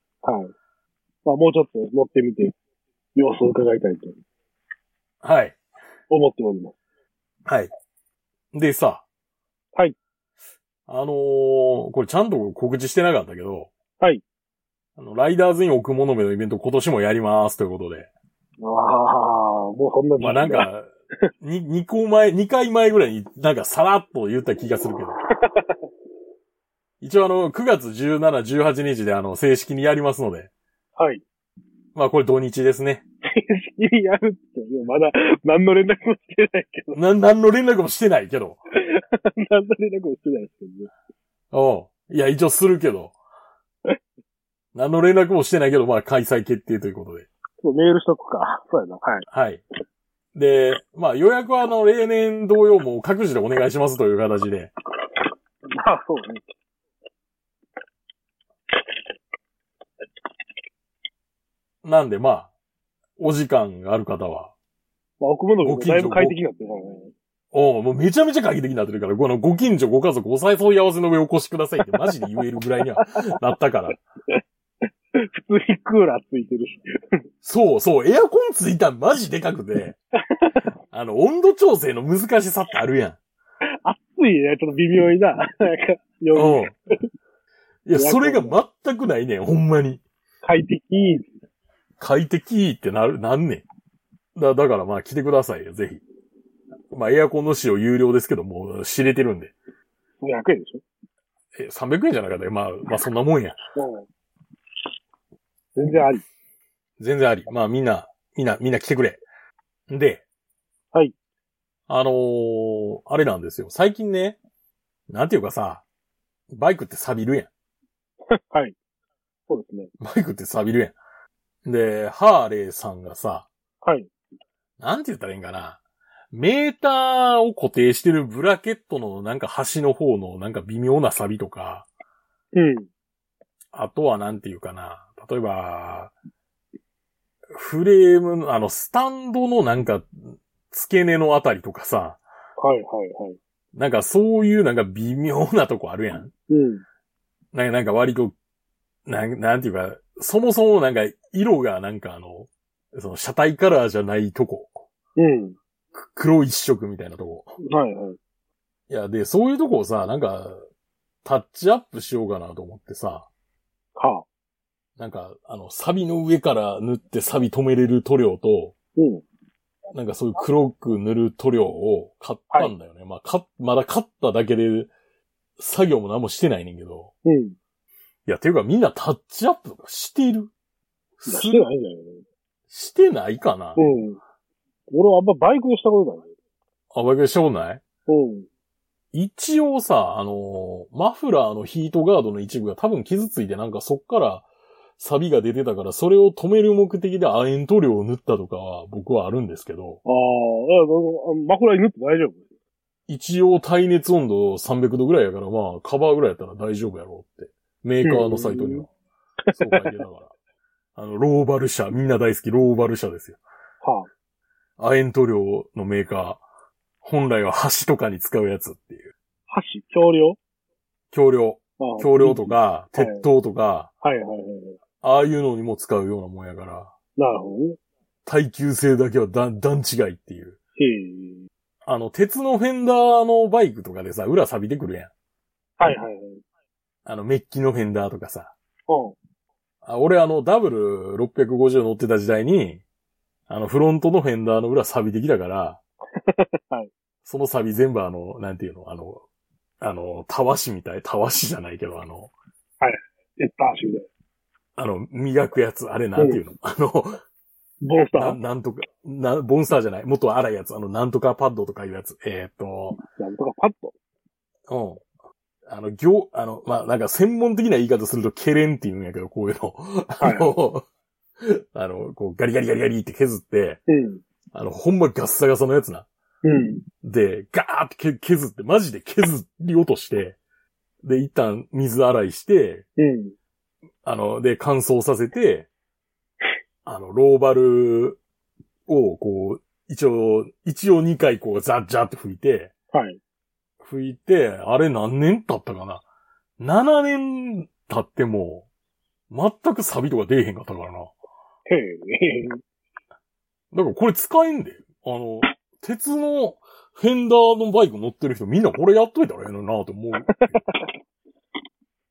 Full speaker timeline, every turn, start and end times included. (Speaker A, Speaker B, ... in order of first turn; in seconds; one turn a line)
Speaker A: 0.2-0.5
Speaker A: 1.2-2.5
Speaker A: 3.1-4.2
Speaker B: 5.2-5.6
Speaker A: 6.1-6.7
Speaker B: 7.5-7.7
Speaker B: 8.5-9.0
Speaker B: 10.9-13.7
Speaker B: 15.0-18.1
Speaker A: 18.6-20.7
Speaker B: 20.2-20.9
Speaker B: 21.4-25.2
Speaker A: 25.4-25.8
Speaker B: 27.0-30.5
Speaker A: 31.0-31.2
Speaker B: 31.9-33.0
Speaker A: 33.2-37.0
Speaker B: 36.9-38.6
Speaker A: 38.7-40.9
Speaker B: 41.5-43.1
Speaker B: 44.7-47.2
Speaker A: 47.6-49.2
Speaker B: 49.3-49.6
Speaker B: 50.3-54.7
Speaker A: 55.7-56.4
Speaker B: 61.8-62.5
Speaker B: 63.2-64.5
Speaker A: 65.2-67.1
Speaker B: 65.6-66.3
Speaker B: 67.5-74.0
Speaker A: 75.2-77.2
Speaker B: 77.4-80.0
Speaker A: 80.3-80.6
Speaker B: 80.9-83.2
Speaker A: 83.8-86.7
Speaker B: 86.3-86.7
Speaker B: 87.8-90.0
Speaker A: 88.0-88.5
Speaker A: 90.4-91.3
Speaker B: 92.0-93.6
Speaker B: 94.3-96.0
Speaker B: 96.9-99.5
Speaker A: 100.2-100.8
Speaker B: 101.5-103.6
Speaker A: 103.7-104.1
Speaker A: 105.8-106.2
Speaker B: 107.0-109.2
Speaker B: 109.9-110.2
Speaker B: 111.9-114.4
Speaker B: 115.1-115.8
Speaker B: 116.5-117.5
Speaker A: 118.3-118.7
Speaker A: 119.5-119.9
Speaker B: 120.0-121.0
Speaker B: 121.6-123.5
Speaker A: 123.8-124.1
Speaker B: 124.8-125.8
Speaker B: 126.3-131.8
Speaker A: 132.5-132.9
Speaker B: 133.7-136.1
Speaker B: 137.5-142.2
Speaker A: 142.6-143.4
Speaker B: 143.7-146.3
Speaker A: 146.5-146.8
Speaker B: 147.5-148.3
Speaker B: 149.1-154.8
Speaker A: 155.2-155.6
Speaker B: 155.9-157.5
Speaker A: 157.6-158.2
Speaker B: 158.9-160.6
Speaker B: 161.2-163.3
Speaker A: 163.9-164.2
Speaker B: 165.0-168.7
Speaker A: 168.9-169.2
Speaker B: 169.9-174.9
Speaker B: 175.6-177.1
Speaker A: 177.2-177.6
Speaker B: 178.2-180.5
Speaker B: 181.2-181.6
Speaker A: 181.3-182.2
Speaker B: 182.7-183.8
Speaker A: 183.8-184.2
Speaker A: 184.9-186.3
Speaker B: 186.9-187.8
Speaker A: 188.1-188.5
Speaker B: 189.1-194.4
Speaker B: 195.0-200.0
Speaker A: 200.0-202.4
Speaker B: 203.1-208.9
Speaker A: 208.0-208.9
Speaker A: 209.4-210.0
Speaker B: 209.5-210.3
Speaker B: 210.9-213.4
Speaker A: 213.8-214.1
Speaker B: 214.8-216.4
Speaker B: 217.0-219.1
Speaker A: 219.5-220.4
Speaker B: 221.1-223.9
Speaker A: 221.8-223.2
Speaker A: 224.0-224.8
Speaker B: 225.0-226.9
Speaker A: 227.2-227.8
Speaker B: 228.2-230.6
Speaker A: 230.8-231.5
Speaker B: 231.8-235.1
Speaker A: 235.8-236.4
Speaker B: 237.0-238.5
Speaker A: 238.9-239.2
Speaker B: 239.8-242.8
Speaker B: 243.5-245.8
Speaker A: 246.2-246.9
Speaker B: 247.2-249.2
Speaker B: 249.8-252.3
Speaker A: 252.8-254.1
Speaker B: 254.8-257.2
Speaker A: 256.1-256.4
Speaker A: 257.8-258.4
Speaker B: 258.1-263.0
Speaker A: 263.1-263.9
Speaker B: 264.7-265.0
Speaker B: 265.7-270.9
Speaker A: 270.2-270.5
Speaker B: 271.4-273.8
Speaker A: 273.9-274.2
Speaker B: 274.5-276.1
Speaker A: 276.4-276.8
Speaker B: 277.0-280.4
Speaker B: 281.0-282.8
Speaker A: 283.0-283.3
Speaker B: 284.0-285.7
Speaker B: 286.8-288.2
Speaker B: 288.9-292.7
Speaker A: 292.9-293.2
Speaker B: 293.8-296.0
Speaker B: 296.6-298.6
Speaker B: 299.3-301.1
Speaker A: 301.7-302.6
Speaker B: 303.7-310.6
Speaker A: 310.4-310.8